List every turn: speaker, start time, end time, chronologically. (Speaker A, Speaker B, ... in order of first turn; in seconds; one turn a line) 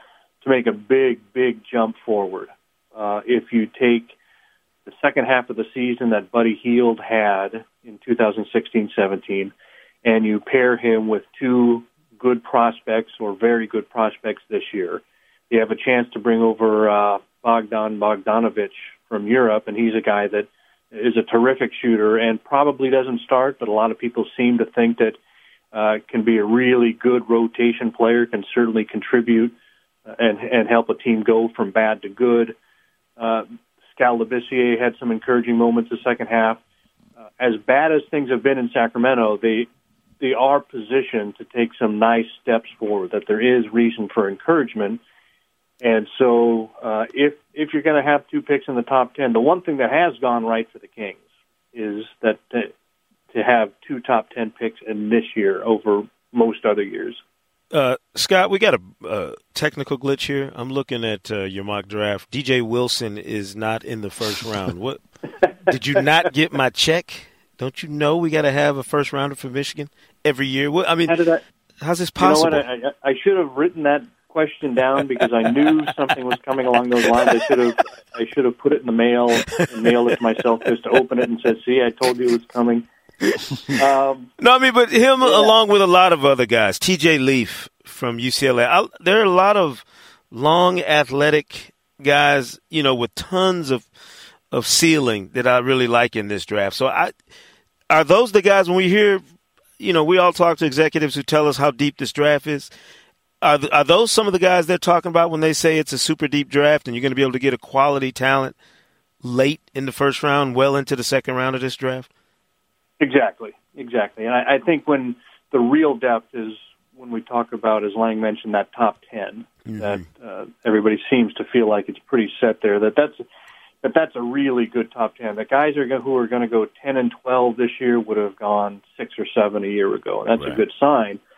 Speaker A: 0.4-4.1
Speaker A: 4.8-9.5
Speaker A: 10.0-25.2
Speaker A: 25.7-29.5
Speaker A: 30.1-32.5
Speaker A: 33.2-36.6
Speaker A: 37.4-39.7
Speaker A: 40.2-45.0
Speaker A: 45.8-51.2
Speaker A: 51.7-52.7
Speaker A: 53.3-57.2
Speaker B: 57.7-71.2
Speaker A: 71.0-71.4
Speaker B: 71.8-72.6
Speaker A: 72.2-82.9
Speaker B: 83.3-83.7
Speaker A: 83.7-84.3
Speaker B: 84.4-93.9
Speaker A: 85.2-85.5
Speaker B: 94.5-97.1
Speaker B: 97.9-99.2
Speaker B: 99.8-102.7
Speaker B: 103.4-108.5
Speaker B: 109.2-112.1
Speaker A: 113.0-123.2
Speaker B: 119.7-120.0
Speaker A: 123.8-131.2
Speaker B: 130.3-130.6